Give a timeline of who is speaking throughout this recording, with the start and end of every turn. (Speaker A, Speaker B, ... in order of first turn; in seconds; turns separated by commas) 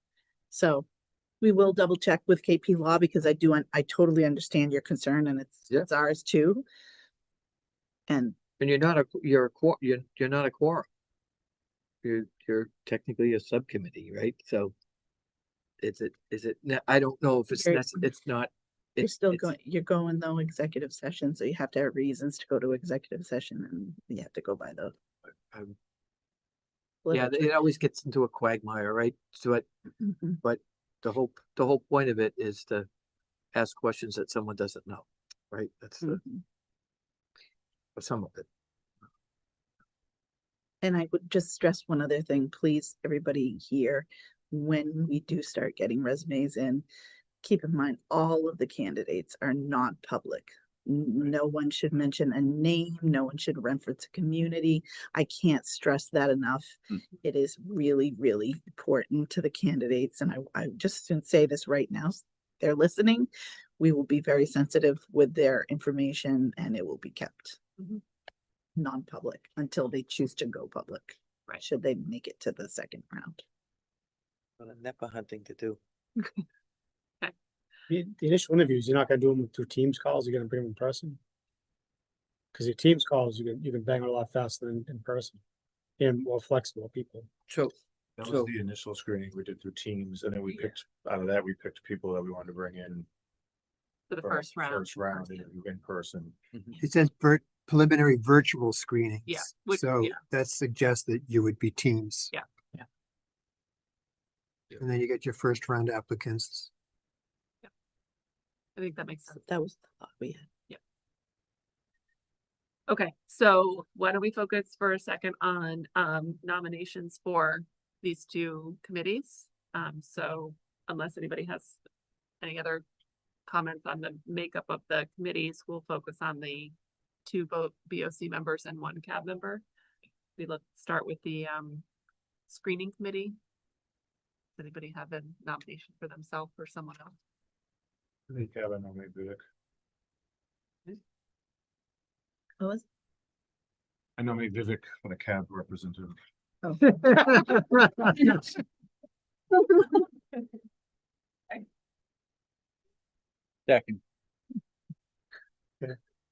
Speaker A: 0.5-0.9, Speaker A: 1.4-6.6, Speaker A: 8.1-8.4, Speaker B: 8.6-10.9, Speaker B: 12.0-14.7, Speaker B: 15.8-19.5, Speaker A: 19.0-24.9, Speaker B: 25.5-25.8, Speaker A: 27.0-27.5, Speaker B: 27.1-29.7, Speaker A: 30.0-30.3, Speaker B: 30.4-32.9, Speaker B: 33.5-36.2, Speaker B: 38.0-38.5, Speaker A: 40.8-46.9, Speaker A: 47.4-67.6, Speaker A: 68.8-73.4, Speaker B: 74.6-75.8, Speaker C: 77.9-81.2, Speaker C: 82.5-85.4, Speaker C: 86.0-87.3, Speaker B: 87.5-88.5, Speaker D: 88.2-93.1, Speaker E: 94.1-95.5, Speaker D: 94.2-96.4, Speaker F: 96.8-102.3, Speaker E: 99.2-100.2, Speaker F: 104.8-106.7, Speaker E: 108.8-109.4, Speaker A: 109.4-110.5, Speaker E: 112.9-121.8, Speaker E: 122.4-122.8, Speaker E: 123.5-126.7, Speaker E: 127.2-129.6, Speaker E: 130.4-131.8, Speaker E: 132.5-133.3, Speaker E: 134.6-137.1, Speaker D: 138.3-139.4, Speaker D: 144.2-146.2, Speaker A: 146.6-147.6, Speaker B: 153.7-154.0